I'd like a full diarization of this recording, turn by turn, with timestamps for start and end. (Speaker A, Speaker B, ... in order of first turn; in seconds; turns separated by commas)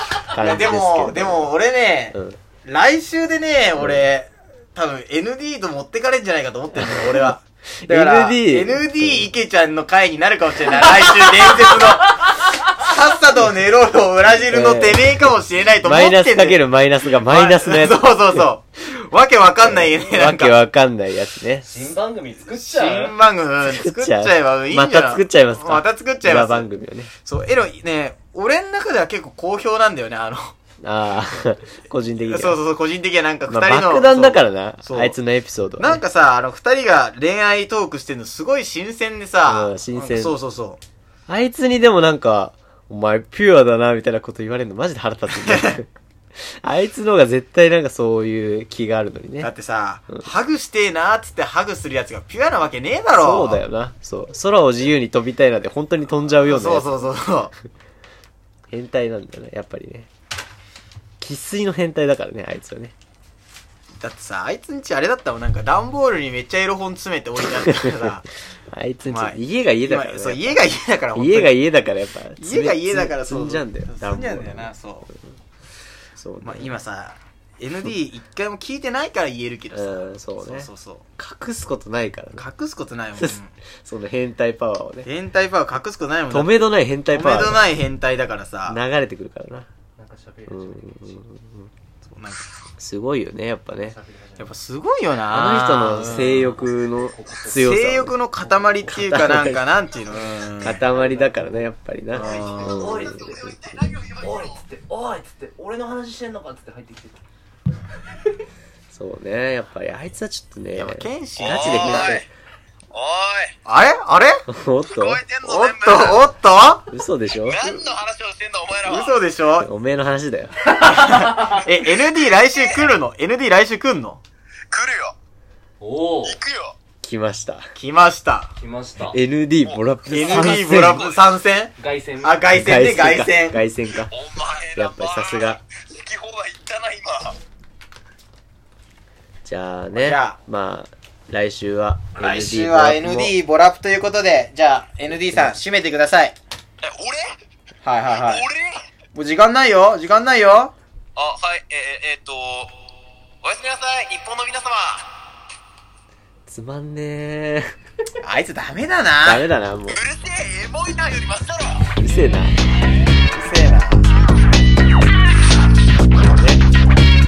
Speaker A: 0.3-1.5, Speaker B: 0.3-16.6, Speaker A: 2.1-2.4, Speaker A: 6.7-9.3, Speaker A: 14.5-15.3, Speaker A: 15.8-18.5, Speaker B: 17.1-20.6, Speaker A: 19.6-21.9, Speaker C: 21.6-23.1, Speaker B: 22.5-26.7, Speaker A: 23.6-27.1, Speaker B: 27.2-30.5, Speaker A: 30.8-32.6, Speaker B: 32.2-35.2, Speaker A: 33.5-36.0, Speaker B: 35.8-40.8, Speaker A: 39.5-40.4, Speaker A: 41.3-49.5, Speaker B: 45.3-45.8, Speaker B: 49.4-53.6, Speaker A: 53.1-56.9, Speaker B: 56.4-57.5, Speaker A: 58.7-60.1, Speaker A: 61.2-62.9, Speaker B: 64.0-68.3, Speaker A: 67.6-68.1, Speaker A: 68.7-74.7, Speaker B: 69.1-71.6, Speaker B: 72.4-75.1, Speaker A: 76.2-76.7, Speaker B: 76.4-81.1, Speaker A: 79.7-82.5, Speaker B: 82.4-83.5, Speaker A: 83.2-85.1, Speaker B: 85.0-86.6, Speaker A: 86.3-87.7, Speaker B: 87.1-88.8, Speaker A: 88.7-89.7, Speaker C: 90.0-91.2, Speaker A: 90.5-91.7, Speaker B: 92.1-92.5, Speaker A: 92.8-94.0, Speaker C: 93.8-94.5, Speaker B: 94.4-96.5, Speaker A: 95.3-98.2, Speaker C: 96.2-97.7, Speaker B: 97.5-100.8, Speaker C: 98.4-98.8, Speaker A: 98.8-99.6, Speaker A: 100.6-103.9, Speaker C: 100.8-101.6, Speaker B: 102.2-103.0, Speaker C: 102.2-107.2, Speaker A: 108.9-112.3, Speaker B: 110.8-112.2, Speaker D: 111.5-112.2, Speaker D: 112.9-113.5, Speaker B: 113.7-114.4, Speaker A: 114.5-115.3, Speaker D: 114.9-116.2, Speaker B: 115.4-116.9, Speaker A: 116.9-117.7, Speaker D: 117.5-119.1, Speaker B: 118.8-119.7, Speaker A: 119.6-120.5, Speaker B: 120.7-124.2, Speaker C: 120.9-121.7, Speaker D: 124.7-125.1, Speaker C: 125.8-126.4, Speaker D: 126.4-126.7, Speaker A: 127.0-127.7, Speaker B: 127.8-128.5, Speaker C: 128.6-129.2, Speaker A: 129.1-131.1, Speaker B: 130.1-133.6, Speaker C: 131.8-132.5, Speaker A: 132.5-134.2, Speaker D: 134.2-137.4, Speaker A: 134.7-135.6, Speaker A: 139.4-143.3, Speaker B: 140.0-140.4, Speaker B: 142.2-146.4, Speaker D: 146.8-147.3, Speaker B: 147.8-148.5, Speaker B: 149.2-150.7, Speaker D: 151.2-152.7, Speaker D: 153.4-155.1, Speaker A: 156.5-157.7, Speaker B: 158.2-159.4, Speaker A: 159.2-160.0, Speaker D: 159.9-161.8, Speaker A: 161.9-162.6, Speaker B: 163.3-164.1, Speaker A: 166.2-166.6